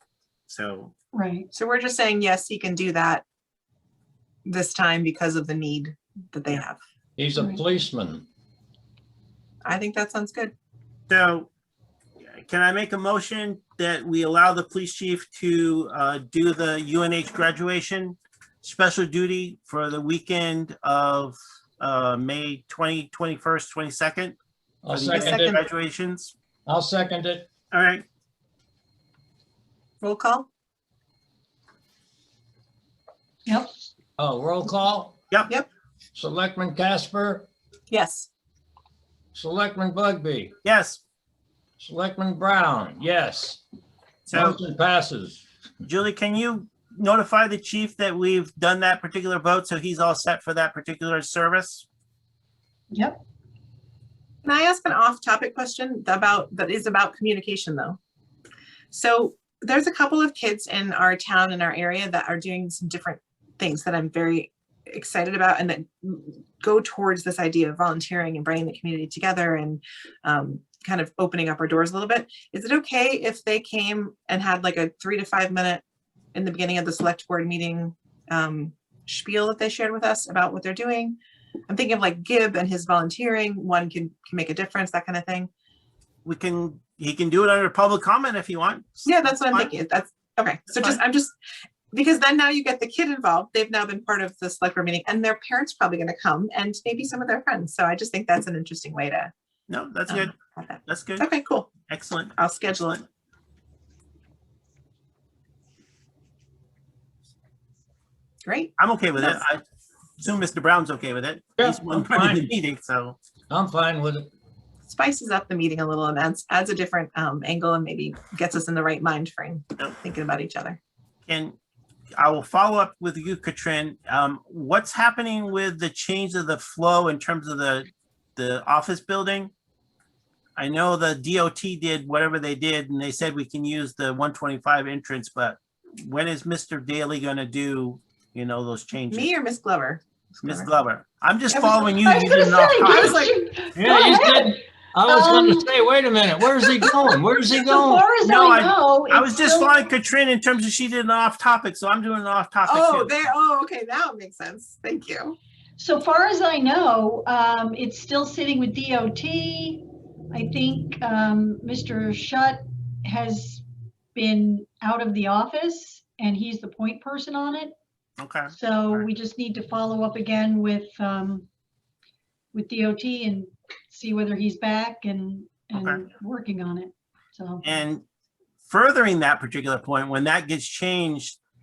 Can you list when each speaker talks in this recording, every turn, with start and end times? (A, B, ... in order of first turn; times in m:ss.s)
0:00.5-0:00.9 A
0:01.1-0:01.5 B
0:01.5-0:03.2 C
0:04.4-0:06.8 C
0:07.2-0:08.2 D
0:09.6-0:10.5 C
0:11.1-0:11.5 A
0:12.3-0:24.4 A
0:24.8-0:25.6 D
0:25.0-0:26.3 A
0:25.1-0:25.6 C
0:26.6-0:27.5 D
0:27.7-0:28.0 A
0:30.0-0:30.5 C
0:33.4-0:33.7 B
0:34.2-0:35.2 D
0:36.1-0:37.5 D
0:37.9-0:38.3 C
0:39.3-0:40.5 D
0:40.6-0:41.0 A
0:41.8-0:43.6 D
0:44.3-0:44.6 A
0:44.3-0:45.4 D
0:45.8-0:51.8 A
0:52.9-0:53.2 B
0:54.4-0:58.0 C
0:58.9-1:15.8 C
1:16.3-1:21.1 C
1:21.7-1:25.5 C
1:26.2-1:29.7 A
1:29.0-1:31.3 C
1:30.7-1:31.0 A
1:31.9-1:39.3 C
1:39.7-1:40.3 A
1:40.1-1:41.7 C
1:40.8-1:41.3 A
1:41.9-1:42.3 A
1:42.4-1:43.0 C
1:48.4-1:49.4 C
1:48.8-1:49.6 A
1:50.2-1:53.2 A
1:51.6-1:52.5 D
1:53.5-1:54.3 D
1:54.8-2:00.8 C
2:01.3-2:01.6 A
2:02.2-2:09.5 A
2:10.6-2:19.3 A
2:19.1-2:20.7 C
2:20.4-2:23.2 A
2:21.5-2:22.3 C
2:21.9-2:25.7 B
2:22.9-2:23.3 C
2:23.7-2:28.1 D
2:26.6-2:29.8 B
2:28.2-2:33.3 A
2:32.6-2:35.4 C
2:35.8-2:47.7 B
2:48.2-2:49.1 A
2:48.5-2:51.5 B
2:52.5-2:57.7 B
2:55.7-2:56.0 A
2:57.6-2:58.0 A
2:58.6-3:01.4 A